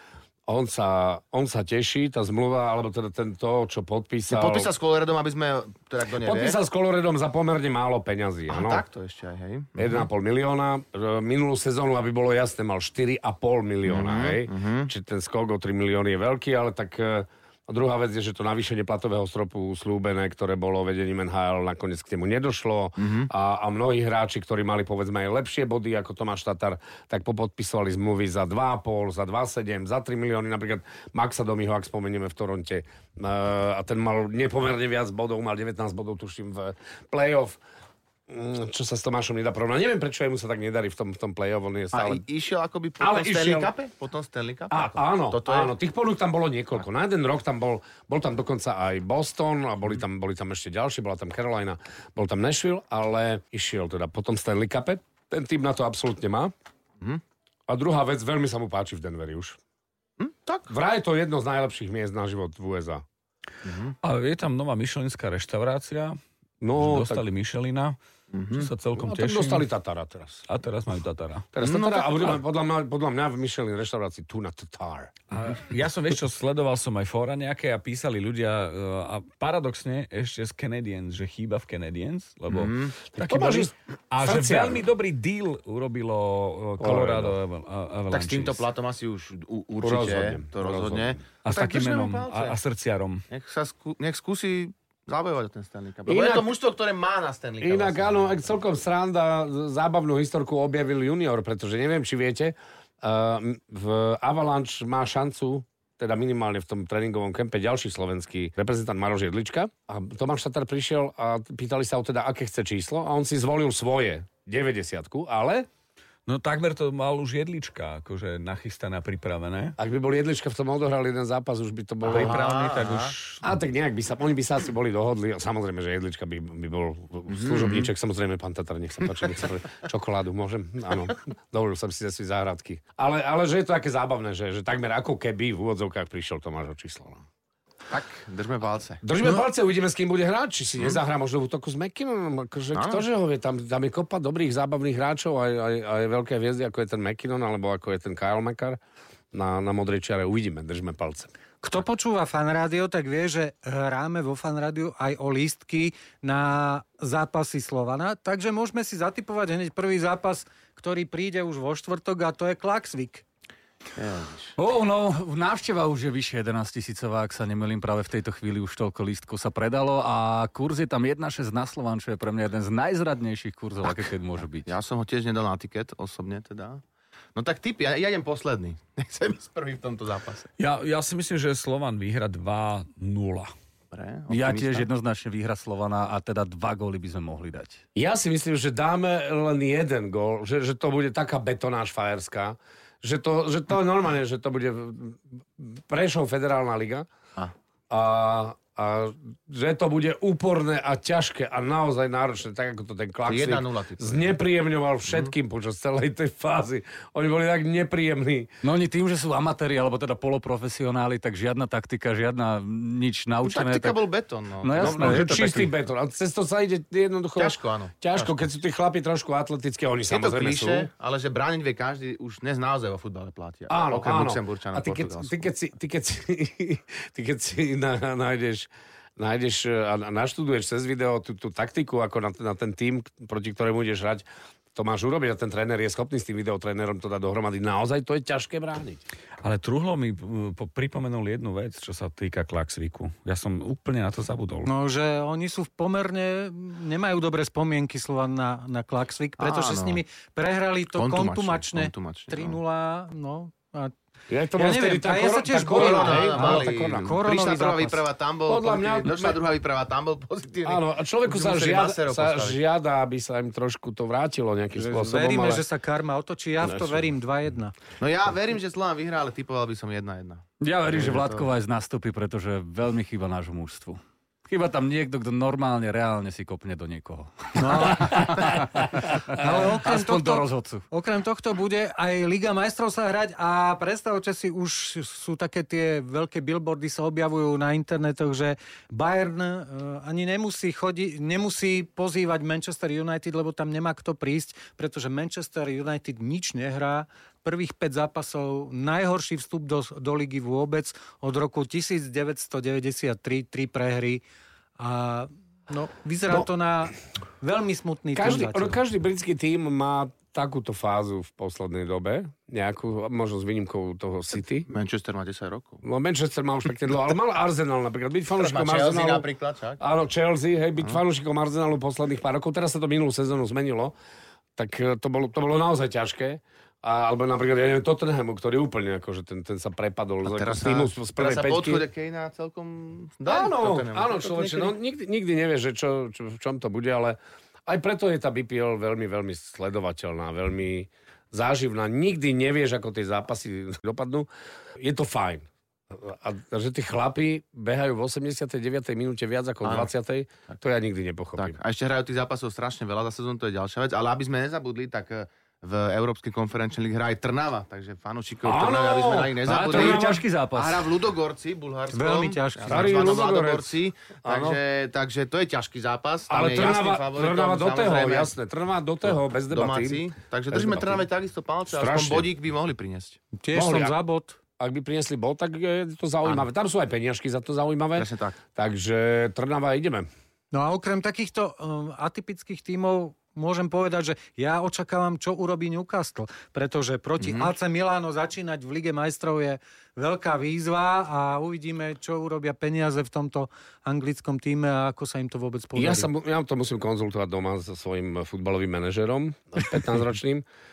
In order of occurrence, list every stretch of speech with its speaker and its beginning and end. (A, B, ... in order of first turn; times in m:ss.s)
0:00.5-0:04.7 A
0:04.3-0:06.6 B
0:06.2-0:08.8 A
0:08.5-0:10.1 B
0:09.8-0:37.6 A
0:13.8-0:14.9 B
0:23.0-0:23.3 B
0:38.3-0:42.2 A
0:41.9-0:45.7 B
0:43.0-0:43.7 A
0:44.7-0:56.5 A
0:57.7-0:59.6 A
1:00.2-1:00.7 B
1:00.7-1:03.0 A
1:03.6-1:03.9 B
1:04.0-1:06.2 C
1:06.6-1:07.2 A
1:06.8-1:08.0 C
1:08.3-1:08.7 B
1:08.5-1:09.7 C
1:09.0-1:10.4 A
1:10.5-1:11.5 C
1:11.5-1:15.1 A
1:11.6-1:12.4 B
1:15.3-1:28.6 C
1:22.5-1:23.0 B
1:23.1-1:24.9 A
1:26.8-1:27.4 A
1:28.1-1:32.6 B
1:29.8-1:31.2 A
1:31.4-1:33.2 C
1:33.3-1:38.6 B
1:36.1-1:36.5 A
1:37.6-1:55.7 A
1:56.2-1:59.7 C
1:59.8-2:02.5 A
2:02.0-2:03.1 B
2:02.1-2:03.5 C
2:03.4-2:17.2 A
2:07.3-2:07.9 B
2:17.9-2:19.4 B
2:19.0-2:28.8 A
2:22.7-2:23.0 B
2:29.3-2:31.3 A
2:31.6-2:43.2 D
2:43.9-2:44.5 B
2:44.6-2:54.7 E
2:54.7-2:56.8 B
2:57.3-3:00.5 B
3:00.6-3:03.5 C
3:03.9-3:04.9 B
3:04.3-3:07.8 E
3:07.9-3:17.0 A
3:17.9-3:28.5 A
3:23.2-3:24.4 B
3:25.0-3:25.3 B
3:28.6-3:34.1 E
3:33.4-3:35.4 B
3:34.6-3:35.7 E
3:34.8-3:40.9 A
3:37.4-3:38.4 B
3:40.1-3:45.4 B
3:43.7-3:59.0 A
3:59.4-4:04.7 C
4:04.6-4:13.9 D
4:09.4-4:10.0 B
4:10.9-4:12.6 B
4:14.3-4:17.2 A
4:14.6-4:18.0 D
4:15.5-4:22.6 B
4:18.5-4:19.4 A
4:20.6-4:25.6 A
4:24.7-4:27.7 D
4:26.6-4:27.0 A
4:28.0-4:31.5 B
4:30.6-4:40.8 E
4:37.6-4:38.5 D
4:39.3-5:04.2 D
5:04.8-5:08.8 D
5:08.1-5:14.7 A
5:14.7-5:15.8 B
5:15.8-5:19.2 A
5:18.3-5:19.8 B
5:19.8-5:23.9 A
5:24.6-5:31.8 A
5:30.2-5:34.7 B
5:33.2-5:44.3 A
5:44.8-5:51.6 A
5:49.6-5:49.9 B
5:51.4-6:08.3 B
5:58.4-6:00.2 A
5:59.5-6:01.0 E
6:01.9-6:03.2 D
6:02.6-6:04.6 A
6:06.3-6:11.1 A
6:09.0-6:13.2 B
6:11.7-6:12.3 A
6:13.4-6:14.4 D
6:13.5-6:13.9 A
6:14.6-6:20.1 A
6:17.9-6:18.4 B
6:20.5-6:36.1 D
6:27.2-6:27.5 B
6:35.7-6:40.4 A